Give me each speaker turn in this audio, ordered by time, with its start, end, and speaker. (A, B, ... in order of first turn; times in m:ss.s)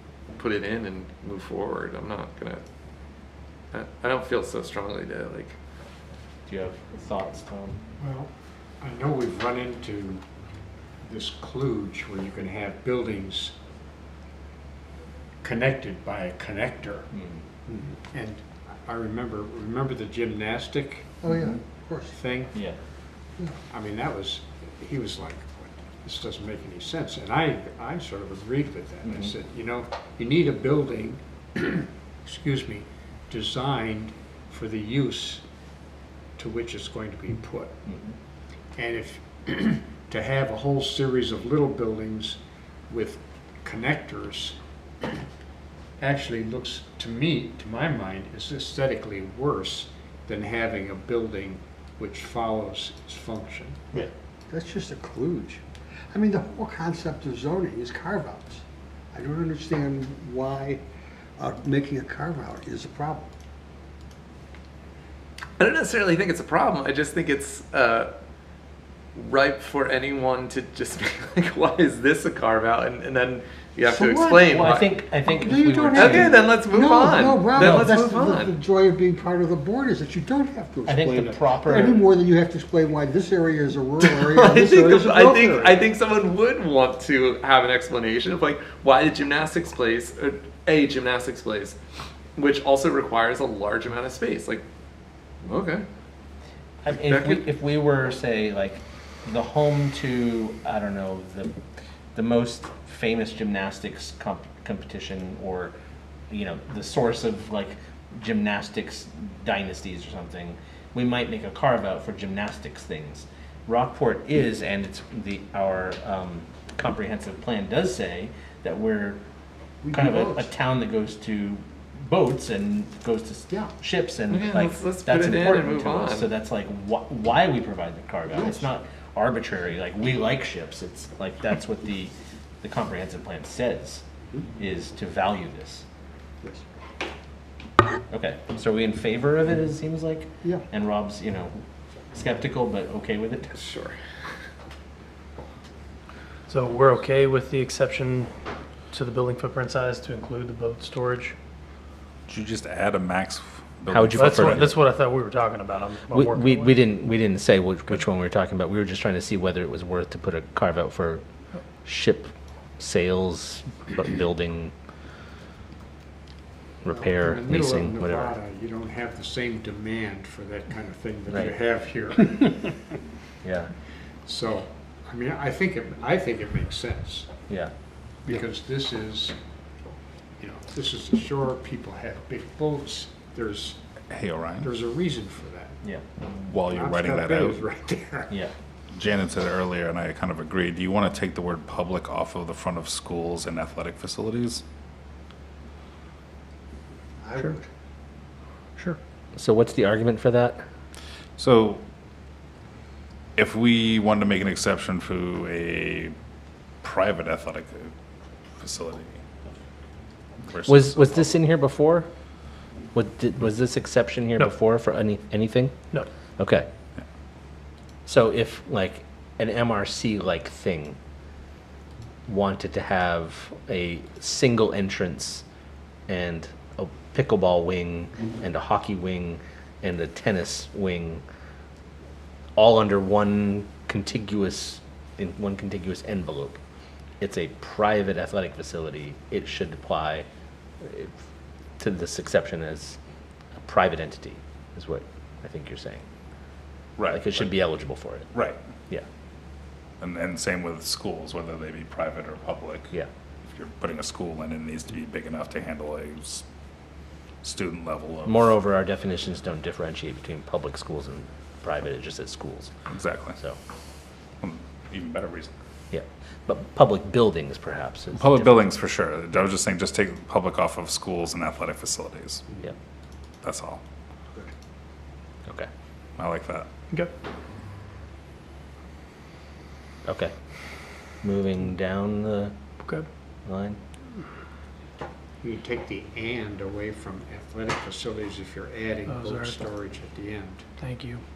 0:00.4-0:02.6 A
0:03.7-0:05.5 A
0:06.5-0:07.8 B
0:08.0-0:08.3 C
0:08.8-0:10.2 C
0:11.0-0:13.5 C
0:15.4-0:17.1 C
0:17.1-0:17.4 B
0:17.7-0:21.2 C
0:21.2-0:22.2 D
0:21.3-0:21.6 B
0:22.1-0:22.6 C
0:23.7-0:35.4 C
0:29.0-0:29.3 B
0:36.4-0:37.8 C
0:37.9-0:38.1 B
0:38.7-0:45.2 C
0:46.0-0:54.1 C
0:54.5-1:00.8 D
1:01.4-1:03.3 D
1:05.6-1:08.1 A
1:09.1-1:15.0 A
1:13.9-1:14.4 D
1:14.0-1:16.4 B
1:15.3-1:25.8 D
1:15.9-1:18.5 A
1:17.6-1:17.9 B
1:20.8-1:22.0 B
1:24.0-1:31.8 A
1:32.4-1:34.6 A
1:35.4-1:35.8 A
1:36.8-1:41.6 B
1:36.9-1:37.4 A
1:42.1-1:45.7 B
1:46.3-1:59.2 B
1:59.8-2:00.5 D
1:59.9-2:14.0 B
2:04.3-2:06.3 A
2:08.3-2:08.7 D
2:14.6-2:15.8 B
2:18.1-2:21.6 B
2:22.1-2:23.6 B
2:23.6-2:24.0 A
2:26.5-2:28.3 E
2:28.9-2:31.3 E
2:32.3-2:34.7 F
2:33.9-2:34.7 B
2:34.1-2:36.8 E
2:36.1-2:41.2 B
2:41.8-2:44.7 B
2:46.8-2:48.3 B
2:46.9-2:52.8 C
2:51.3-2:51.5 B
2:53.4-2:53.7 B
2:54.2-2:57.3 C
2:58.2-2:59.4 C
3:00.4-3:03.8 C
3:04.1-3:04.7 F
3:04.6-3:05.8 C
3:06.3-3:07.6 F
3:06.6-3:08.3 C
3:08.9-3:14.6 F
3:17.2-3:17.6 D
3:19.4-3:20.6 B
3:21.4-3:21.8 F
3:23.4-3:26.1 F
3:26.8-3:27.9 F
3:28.6-3:29.2 F
3:30.5-3:31.3 F
3:30.6-3:32.1 B
3:32.9-3:35.8 B
3:36.4-3:36.7 B
3:38.0-3:41.0 B
3:42.3-3:45.4 B
3:46.1-3:51.2 B
3:52.6-3:56.6 B
3:57.2-4:00.2 B
4:00.8-4:01.1 B
4:01.8-4:03.0 B
4:03.6-4:06.0 B
4:07.0-4:07.5 F
4:07.1-4:08.3 B
4:08.3-4:08.6 F
4:10.0-4:12.9 F
4:13.5-4:16.4 F
4:17.4-4:18.5 F
4:18.2-4:22.7 B
4:22.9-4:23.4 F
4:24.4-4:25.5 F
4:25.9-4:28.6 B
4:28.1-4:32.4 F
4:33.4-4:33.8 F
4:36.2-4:36.7 F
4:40.0-4:40.3 B
4:41.2-4:42.5 B
4:43.4-4:43.8 B
4:45.4-4:50.6 C
4:49.1-4:49.6 E
4:50.8-4:51.2 E